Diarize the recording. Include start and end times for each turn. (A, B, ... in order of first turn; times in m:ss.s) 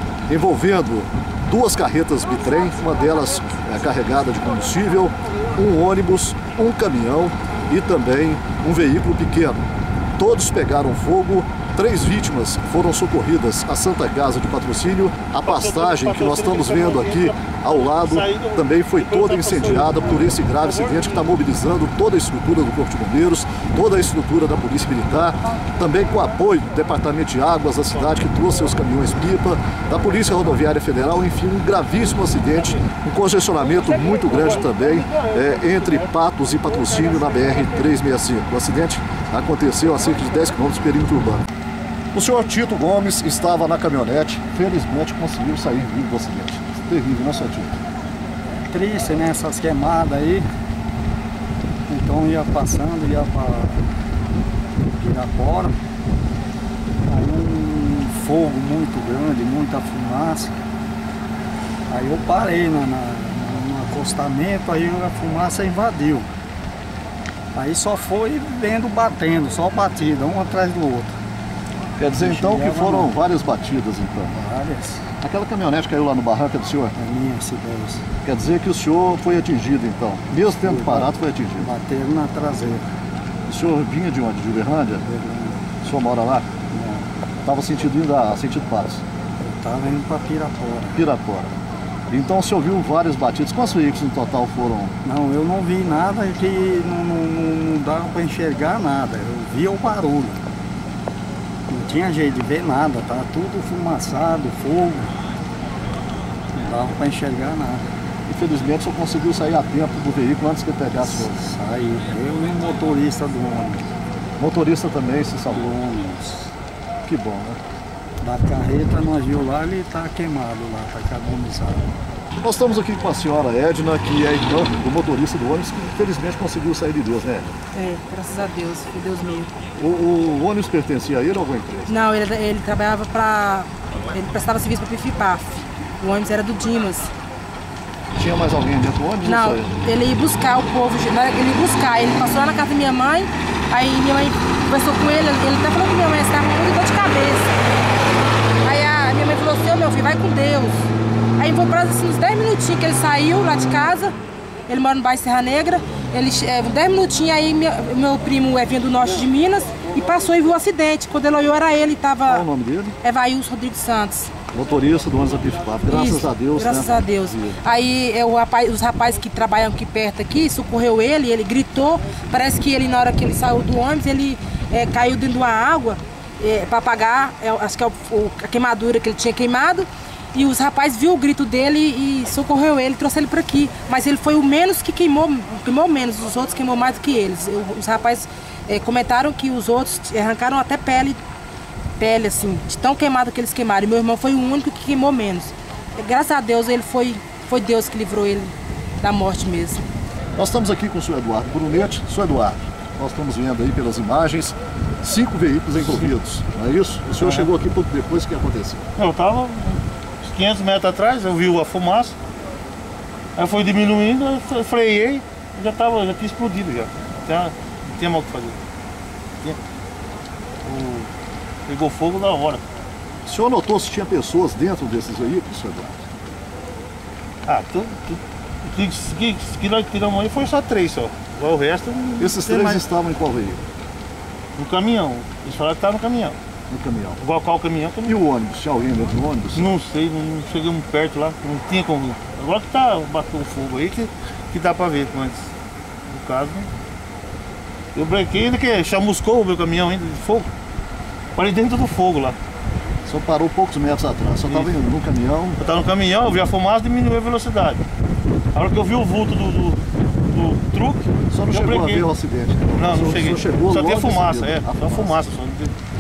0:00.3-0:09.6 A
0:10.2-0:41.4 A
0:15.4-0:21.3 B
0:33.7-0:36.1 B
0:36.7-0:37.9 B
0:42.1-0:47.7 A
0:48.7-0:50.5 C
0:51.9-0:53.8 C
0:54.9-0:55.8 C
0:57.1-1:00.6 C
1:01.9-1:06.3 C
1:07.5-1:11.2 C
1:12.0-1:14.4 A
1:12.1-1:13.2 C
1:14.3-1:15.0 C
1:15.2-1:16.9 A
1:17.0-1:18.0 C
1:18.2-1:21.7 A
1:20.6-1:22.9 C
1:23.5-1:25.0 A
1:25.0-1:25.7 C
1:25.8-1:26.5 A
1:26.7-1:27.1 C
1:27.4-1:29.0 A
1:29.4-1:31.0 C
1:30.9-1:31.6 A
1:32.1-1:34.9 A
1:35.0-1:40.4 C
1:41.7-1:45.2 C
1:46.5-1:47.9 C
1:48.3-1:51.4 A
1:51.0-1:53.9 C
1:54.4-1:55.8 A
1:55.5-1:56.5 C
1:57.0-1:57.6 A
1:58.2-2:01.9 C
2:02.4-2:07.5 A
2:07.7-2:09.5 D
2:09.8-2:11.9 A
2:11.9-2:17.1 D
2:18.2-2:19.7 A
2:19.2-2:27.6 D
2:28.6-2:34.2 D
2:34.7-2:42.5 D
2:42.3-2:43.0 A
2:43.0-2:44.4 D
2:44.5-2:47.6 A
2:45.9-3:11.2 D
3:12.0-3:19.8 D
3:20.4-3:28.8 A
3:25.8-3:26.1 B
3:27.2-3:27.5 B
3:29.0-3:32.2 B
3:33.4-3:38.6 B
3:40.6-3:41.1 B
3:41.7-3:42.6 B
3:43.2-3:46.0 A
3:47.5-3:52.8 B
3:52.2-3:53.6 A
3:54.6-3:56.4 B
3:56.7-3:57.2 A
3:57.2-3:58.2 B
3:58.0-3:59.7 A
3:59.5-4:05.5 B
4:06.1-4:06.7 B
4:08.0-4:10.5 B
4:11.4-4:12.4 B
4:13.1-4:15.6 A
4:14.5-4:14.7 B
4:15.6-4:17.8 B
4:18.5-4:22.1 B
4:21.3-4:25.3 A
4:22.7-4:25.7 B